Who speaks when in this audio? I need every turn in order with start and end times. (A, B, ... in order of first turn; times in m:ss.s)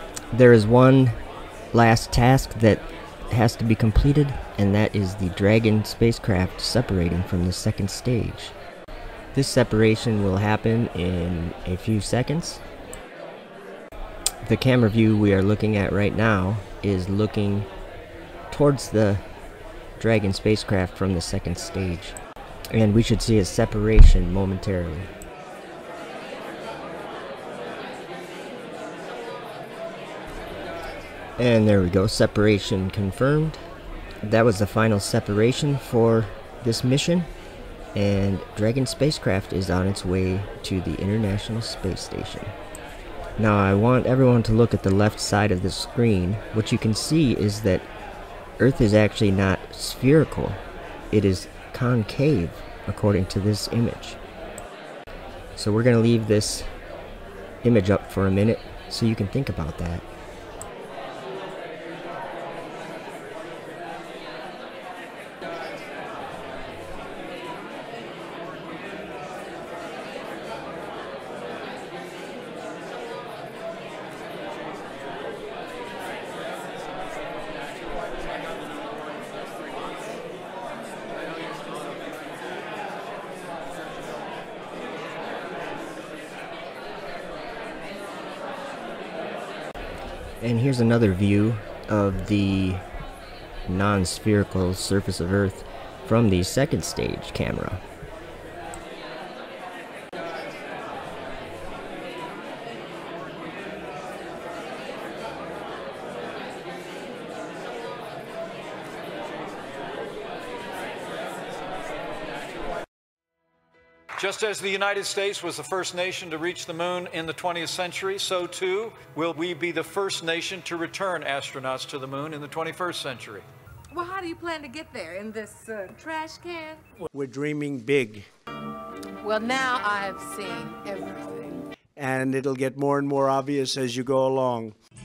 0:00.3-0:01.2 A
0:01.7-0:08.5 A
0:09.3-0:12.6 A
0:14.4-0:17.7 A
0:18.5-0:19.2 A
0:20.0-0:22.2 A
0:22.7-0:25.1 A
0:31.4-0:33.6 A
0:34.2-0:37.3 A
0:37.9-0:42.5 A
0:43.4-0:47.9 A
0:48.6-0:54.2 A
0:55.6-0:56.7 A
0:57.6-1:00.0 A
1:30.4-1:32.8 A
1:33.6-1:37.8 A
1:54.2-2:03.5 B
2:03.9-2:06.8 C
2:07.1-2:08.3 D
2:09.2-2:11.6 C
2:12.0-2:14.7 D